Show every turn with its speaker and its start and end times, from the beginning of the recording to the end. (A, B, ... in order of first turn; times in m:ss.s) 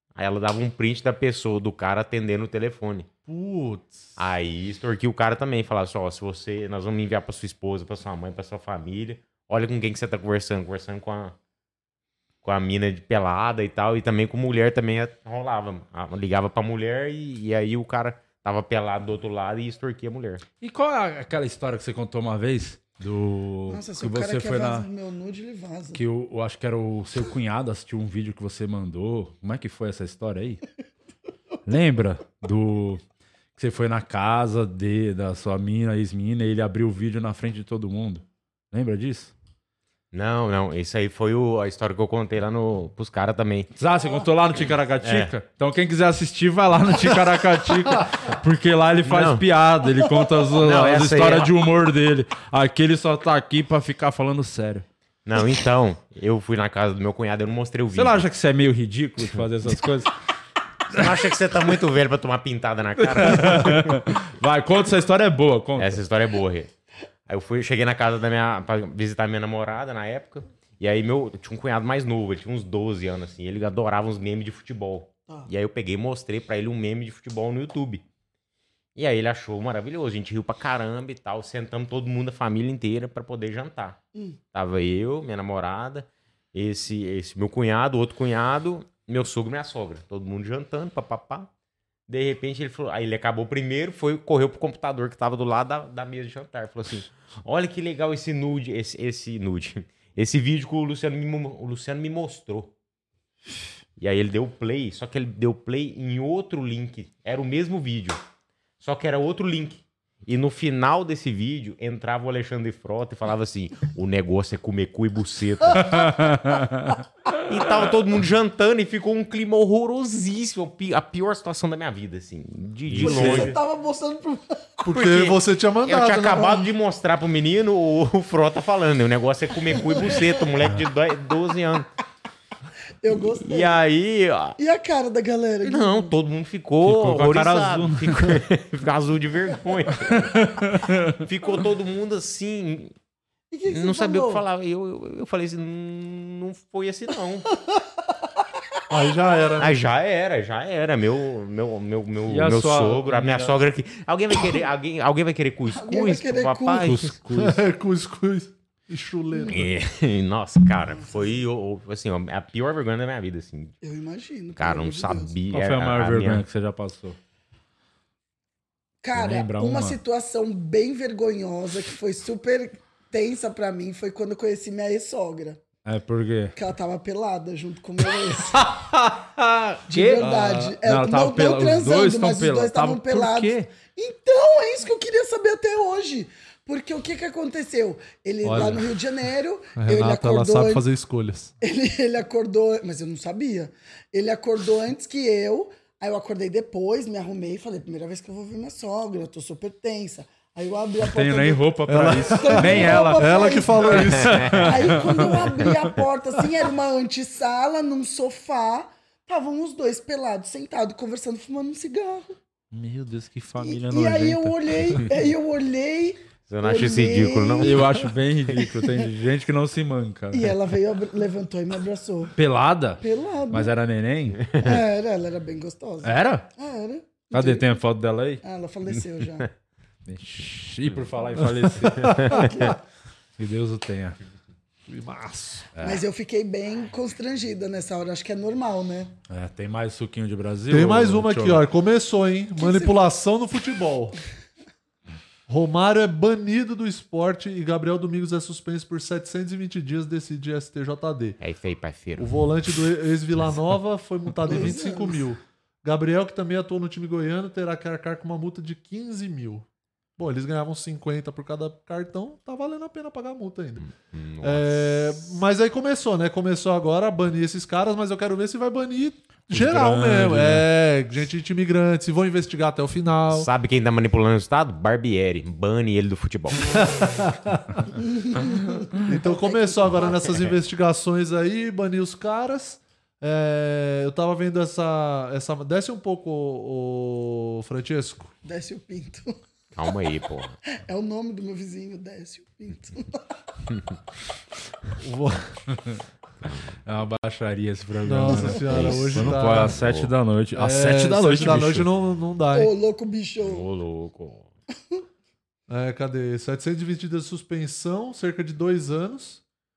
0:00.1-0:03.1 A
0:03.2-0:04.0 B
0:04.2-0:11.3 A
0:12.4-0:20.4 A
0:20.6-0:24.9 C
0:23.7-0:26.0 D
0:25.9-0:30.6 C
0:31.6-0:33.0 C
0:33.6-0:39.3 C
0:40.1-0:43.7 A
0:43.8-0:54.8 C
0:45.0-0:45.3 A
0:49.0-0:49.4 A
0:50.6-0:51.5 A
0:55.2-0:58.2 A
0:57.9-1:00.1 C
1:00.9-1:04.0 A
1:03.0-1:06.0 C
1:05.8-1:06.7 A
1:07.3-1:18.0 A
1:19.0-1:24.0 A
1:24.5-1:31.5 A
1:32.1-1:42.7 A
1:44.0-1:48.2 A
1:48.8-1:56.1 A
1:55.9-1:57.0 C
1:57.5-2:03.5 A
2:02.9-2:03.5 C
2:03.0-2:04.8 D
2:04.8-2:06.7 B
2:04.9-2:11.9 A
2:13.0-2:13.7 D
2:13.4-2:14.6 A
2:14.6-2:16.1 D
2:15.6-2:20.3 A
2:16.8-2:18.4 C
2:20.1-2:21.2 C
2:21.2-2:22.9 A
2:23.5-2:24.4 D
2:23.7-2:27.5 A
2:28.9-2:29.8 B
2:29.6-2:37.1 A
2:32.3-2:33.5 C
2:35.7-2:36.9 D
2:36.8-2:37.6 C
2:37.3-2:39.7 B
2:39.3-2:39.6 D
2:39.5-2:43.8 A
2:43.8-2:45.3 D
2:44.6-2:46.4 A
2:45.5-2:47.2 C
2:49.0-2:55.6 D
2:49.1-2:50.0 C
2:55.8-2:56.5 C
2:56.5-2:58.6 D
2:58.5-3:03.7 C
2:59.9-3:10.8 D
3:00.2-3:00.7 B
3:08.4-3:08.8 B
3:09.8-3:11.5 B
3:11.6-3:21.7 D
3:21.0-3:25.4 C
3:21.9-3:25.3 B
3:22.2-3:32.3 D
3:32.7-3:35.0 C
3:33.6-3:37.8 D
3:36.5-3:37.8 A
3:37.6-3:40.5 C
3:40.3-3:42.3 D
3:42.4-3:44.5 C
3:43.0-3:43.7 D
3:44.6-3:47.7 D
3:46.0-3:46.5 C
3:47.3-3:48.4 C
3:48.4-3:49.5 D
3:50.0-3:52.3 C
3:51.6-3:52.5 B
3:52.3-3:52.8 D
3:53.4-3:54.2 C
3:54.9-3:55.7 B
3:55.8-3:56.0 C
3:55.8-3:59.1 D
3:59.3-4:01.6 C
4:00.7-4:04.2 B
4:02.6-4:03.0 D
4:05.5-4:11.4 B
4:11.4-4:12.3 A
4:12.2-4:19.6 B
4:14.5-4:15.2 D
4:20.2-4:23.8 B
4:23.9-4:25.2 A
4:24.4-4:33.5 B
4:29.5-4:30.6 C
4:33.3-4:36.7 A
4:36.7-4:37.9 B
4:38.0-4:40.3 D
4:39.0-4:48.3 B
4:48.4-4:49.4 D
4:49.7-4:50.6 A
4:50.8-4:53.2 D
4:55.0-4:55.5 B
4:56.8-5:01.9 C
4:58.0-4:59.8 B
4:58.2-4:59.0 D
4:58.7-4:59.0 A
4:59.7-5:00.1 A
5:00.5-5:02.7 B
5:02.5-5:03.6 D
5:03.4-5:04.5 A
5:05.7-5:09.4 B